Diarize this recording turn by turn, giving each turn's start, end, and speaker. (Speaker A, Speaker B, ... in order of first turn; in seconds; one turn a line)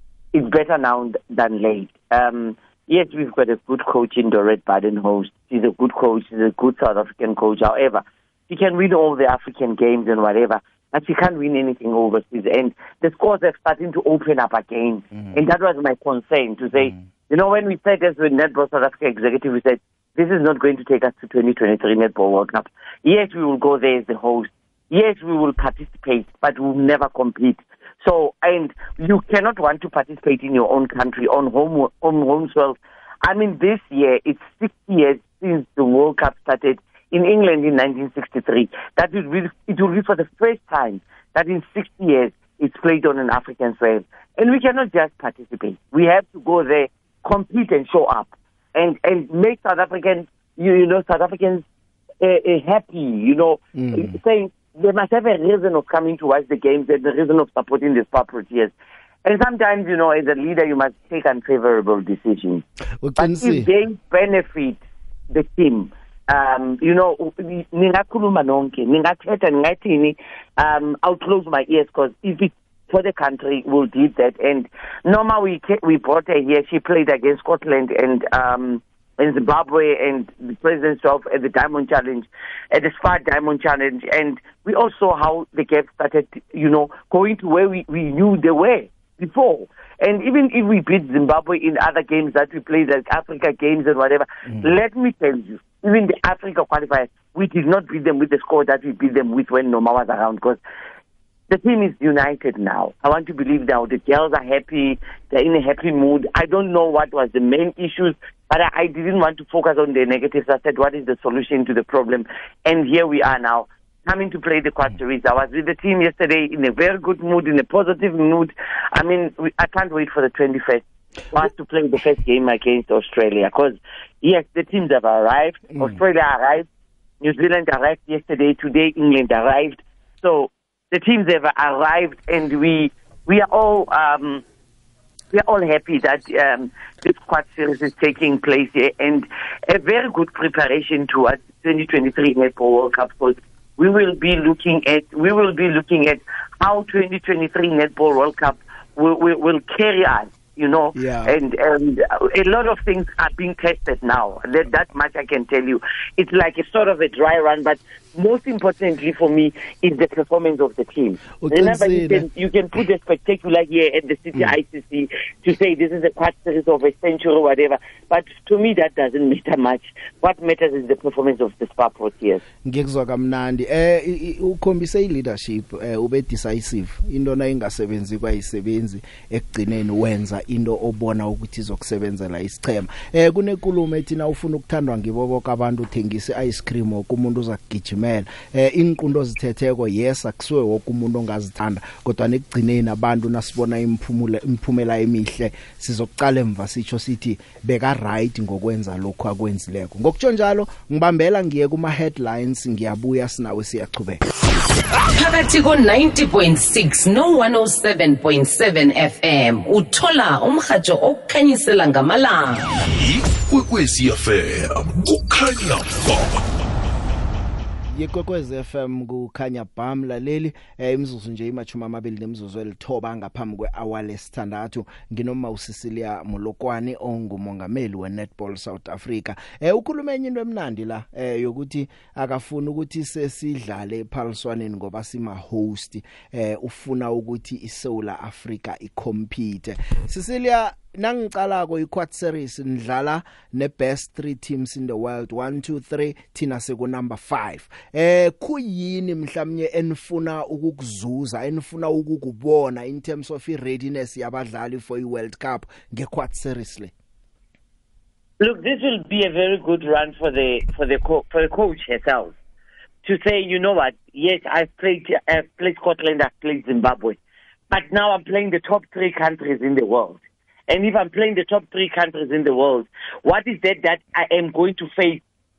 Speaker A: 0.3-51.6
Speaker B: 15.1-15.4
Speaker B: 16.8-17.0
Speaker A: 52.2-58.7
Speaker B: 53.7-54.1
Speaker A: 59.2-62.6
Speaker B: 63.0-63.7
Speaker A: 63.2-64.8
Speaker A: 65.3-100.6
Speaker A: 101.5-126.7
Speaker A: 127.2-134.4
Speaker A: 135.3-172.4
Speaker B: 150.9-151.3
Speaker B: 161.4-162.2
Speaker B: 172.6-204.2
Speaker C: 205.0-212.6
Speaker D: 212.8-216.4
Speaker B: 217.9-256.9
Speaker A: 258.4-262.3
Speaker A: 263.0-267.2
Speaker A: 267.7-275.2